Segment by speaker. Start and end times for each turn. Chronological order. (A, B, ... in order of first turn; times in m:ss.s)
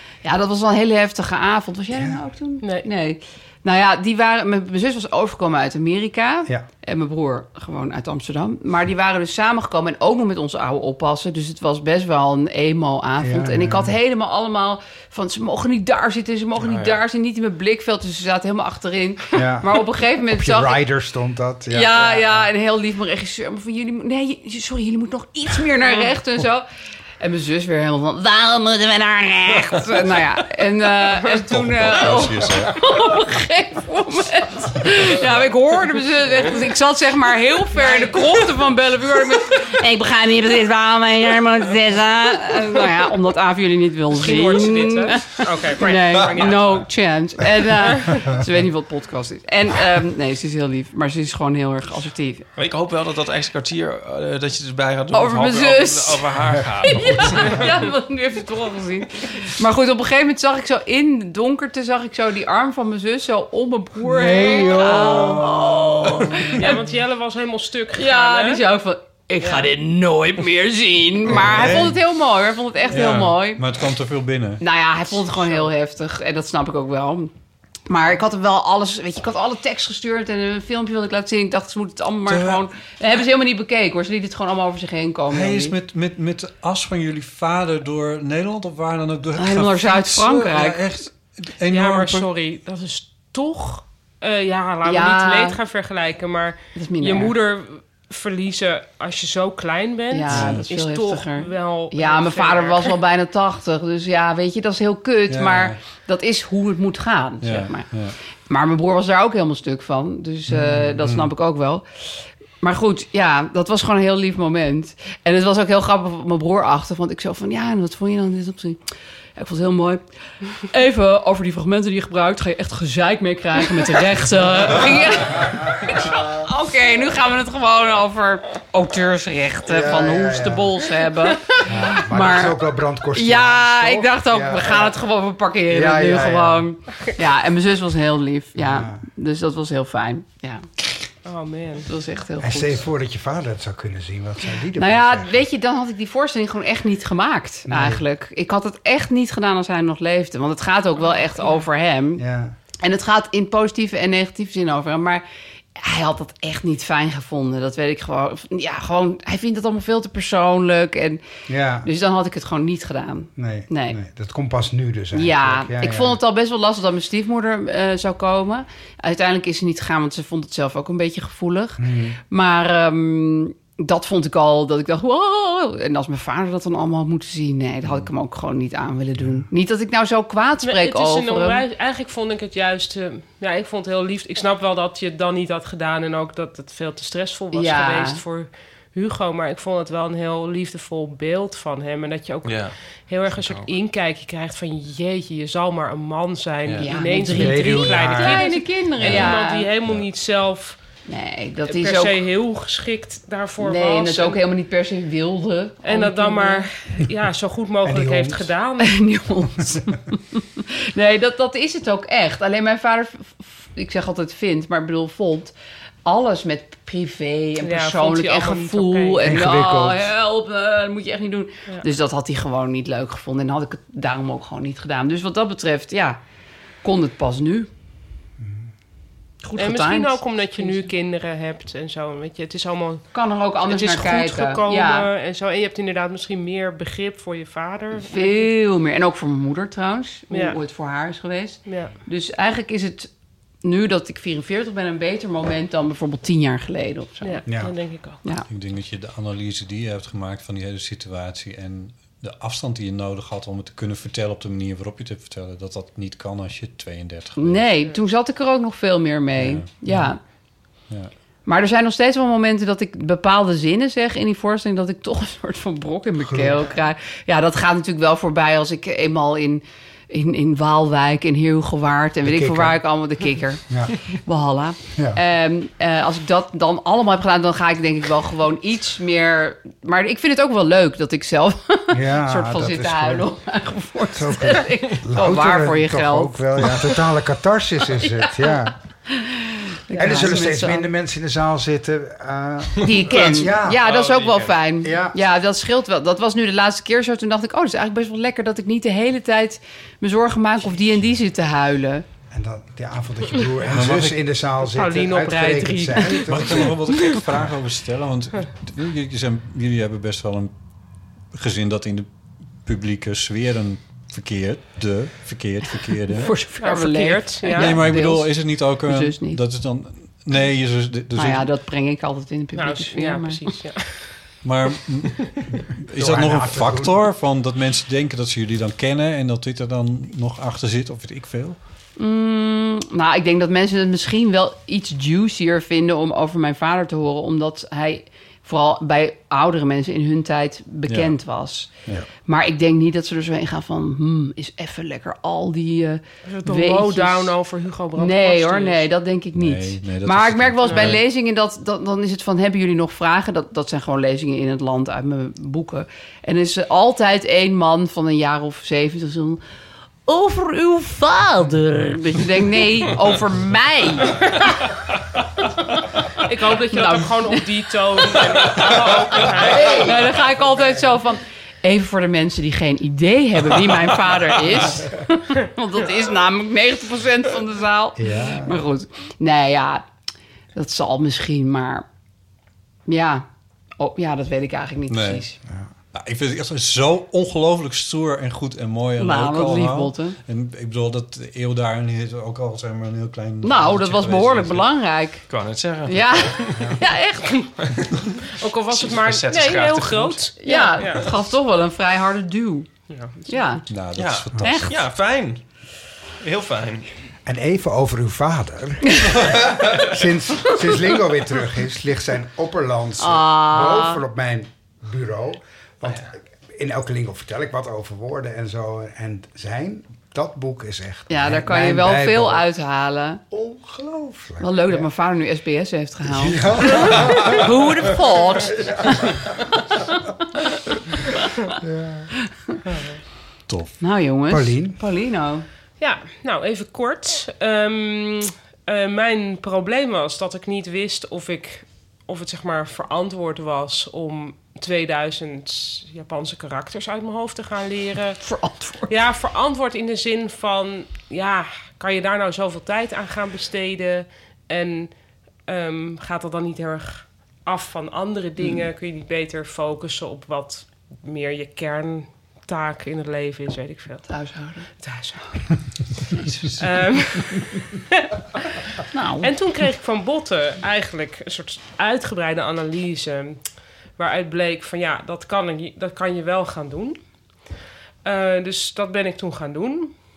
0:00.2-0:20.8 A
0:01.9-0:02.2 B
0:02.6-0:02.9 C
0:13.2-0:14.0 B
0:16.6-0:17.0 D
0:19.3-0:22.4 B
0:21.7-0:26.7 A
0:27.2-0:52.4 A
0:31.4-0:32.8 E
0:37.7-0:38.5 C
0:44.1-0:46.8 C
0:48.1-0:48.4 B
0:52.6-0:57.9 D
0:55.1-1:06.8 A
0:56.5-0:57.3 B
1:04.0-1:06.5 B
1:06.6-1:08.6 C
1:07.9-1:13.6 A
1:09.4-1:09.7 C
1:11.3-1:11.8 B
1:11.3-1:12.0 E
1:12.9-1:14.6 E
1:14.6-1:17.3 A
1:15.4-1:15.7 C
1:17.9-1:25.7 A
1:22.2-1:22.6 E
1:25.3-1:32.3 E
1:29.4-1:30.8 A
1:31.6-1:43.0 C
1:34.8-1:35.6 A
1:36.7-1:37.4 A
1:40.1-1:47.9 A
1:40.3-1:40.7 E
1:45.3-1:45.8 E
1:47.4-1:48.1 E
1:48.5-1:51.8 A
1:50.5-1:51.3 E
1:52.6-1:58.8 A
1:59.4-2:00.0 A
2:00.6-2:20.7 A
2:09.6-2:10.7 B
2:11.6-2:15.0 B
2:15.7-2:16.7 B
2:18.6-2:19.0 B
2:21.2-2:21.9 C
2:21.8-2:22.8 A
2:22.4-2:25.4 B
2:24.7-2:32.2 A
2:27.7-2:28.0 B
2:32.2-2:32.6 B
2:32.8-2:35.2 A
2:35.8-2:41.2 A
2:41.5-2:41.9 B
2:41.8-2:44.0 A
2:43.4-2:46.2 B
2:45.1-3:01.6 A
2:51.8-2:52.2 B
2:59.2-2:59.5 B
3:00.6-3:20.8 C
3:07.5-3:08.2 A
3:12.4-3:12.8 D
3:13.3-3:13.7 D
3:16.8-3:19.7 A
3:17.3-3:18.5 B
3:19.0-3:19.3 D
3:21.0-3:22.2 A
3:21.7-3:24.4 C
3:23.6-3:26.7 A
3:25.8-3:28.9 C
3:27.8-3:28.5 B
3:28.8-3:35.5 A
3:36.0-3:46.2 A
3:37.6-3:39.3 C
3:39.2-3:40.1 B
3:46.8-3:47.7 A
3:49.4-3:50.9 A
3:49.6-3:53.0 C
3:53.1-3:55.1 A
3:53.6-3:58.5 C
3:57.9-4:03.1 A
4:00.3-4:00.6 C
4:01.6-4:02.0 C
4:03.6-4:07.4 A
4:07.2-4:08.2 C
4:07.4-4:07.7 B
4:08.5-4:17.7 E
4:17.4-4:20.2 A
4:19.3-4:19.7 E
4:21.4-4:47.0 A
4:26.2-4:26.6 B
4:32.2-4:32.8 B
4:33.7-4:34.0 B
4:41.9-4:43.2 B
4:44.1-4:48.7 B
4:49.1-4:50.9 A
4:50.0-4:53.8 B
4:52.8-5:02.0 A
4:52.8-4:54.6 D
4:54.8-4:55.2 B
5:02.3-5:06.8 B
5:03.6-5:04.2 E
5:04.6-5:07.2 C
5:06.2-5:10.5 E
5:11.3-5:12.1 E
5:12.6-5:16.3 E
5:16.1-5:19.4 A
5:16.6-5:17.9 C
5:17.5-5:21.4 E
5:21.1-5:23.5 A
5:22.5-5:24.0 C
5:24.4-5:31.6 E
5:26.0-5:26.9 B
5:32.0-5:47.4 A
5:40.9-5:41.2 E
5:46.2-5:48.9 C
5:47.9-5:59.4 A
5:49.3-5:51.0 E
5:50.6-5:50.9 C
6:00.0-6:04.5 A
6:06.2-6:10.0 C
6:06.5-6:07.5 A
6:09.1-6:19.9 A
6:09.6-6:09.9 B
6:18.0-6:18.6 B
6:20.5-6:21.8 A
6:22.9-6:23.2 A
6:23.8-6:25.4 A
6:24.9-6:25.2 E
6:25.9-6:34.7 E
6:29.0-6:30.2 A
6:33.4-6:35.2 A
6:35.3-6:36.8 D
6:35.9-6:37.5 A
6:37.6-6:38.0 D
6:38.2-6:41.1 C
6:38.7-6:40.2 D
6:40.4-6:42.7 A
6:42.9-6:43.5 C
6:43.3-6:43.6 A
6:43.7-6:44.8 E
6:43.9-6:45.4 D
6:44.4-6:44.7 A
6:46.2-6:46.9 D
6:47.2-7:02.4 B
6:53.0-6:54.0 A
7:01.1-7:03.2 A
7:03.3-7:04.9 B
7:04.4-7:09.0 A
7:06.0-7:07.9 B
7:11.6-7:12.1 B
7:13.5-7:13.7 E
7:13.8-7:15.4 A
7:14.3-7:14.8 B
7:15.8-7:28.2 C
7:28.2-7:28.9 A
7:28.9-7:34.9 C
7:35.4-7:44.0 C
7:44.1-7:44.7 A
7:44.8-7:45.3 C
7:46.2-7:46.8 E
7:46.6-7:48.0 C
7:48.9-7:49.7 A
7:49.2-7:53.4 C
7:54.0-7:57.0 C
7:58.0-7:59.9 C